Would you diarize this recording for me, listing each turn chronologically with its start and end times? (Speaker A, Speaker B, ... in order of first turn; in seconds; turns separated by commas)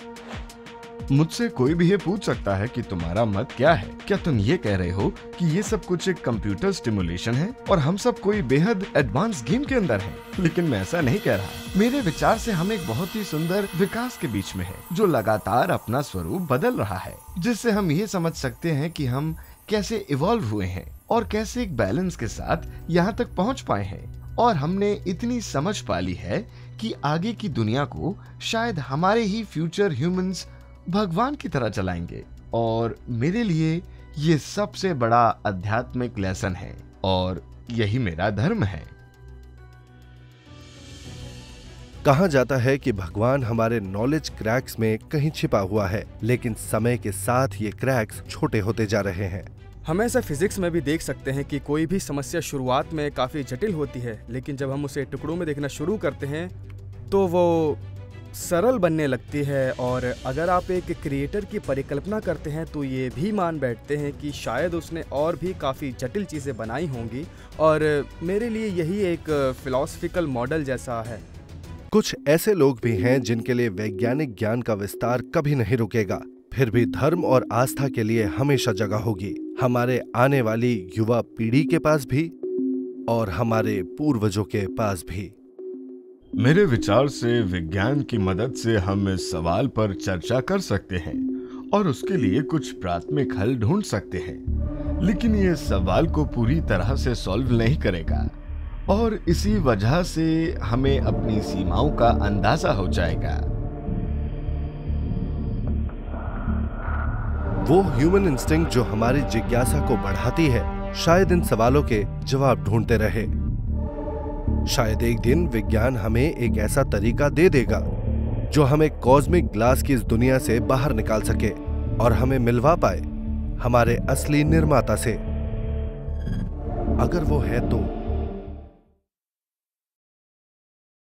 Speaker A: 1.1-38.9, Speaker B: 42.0-49.5, Speaker C: 49.8-56.5, Speaker C: 57.1-57.8, Speaker C: 58.3-71.2, Speaker B: 71.9-82.3, Speaker B: 83.1-85.3, Speaker A: 86.4-94.4, Speaker A: 95.0-98.3, Speaker A: 98.9-103.4, Speaker B: 107.6-113.3, Speaker B: 114.7-117.9, Speaker B: 118.5-123.0, Speaker B: 123.6-125.2, Speaker B: 127.0-127.9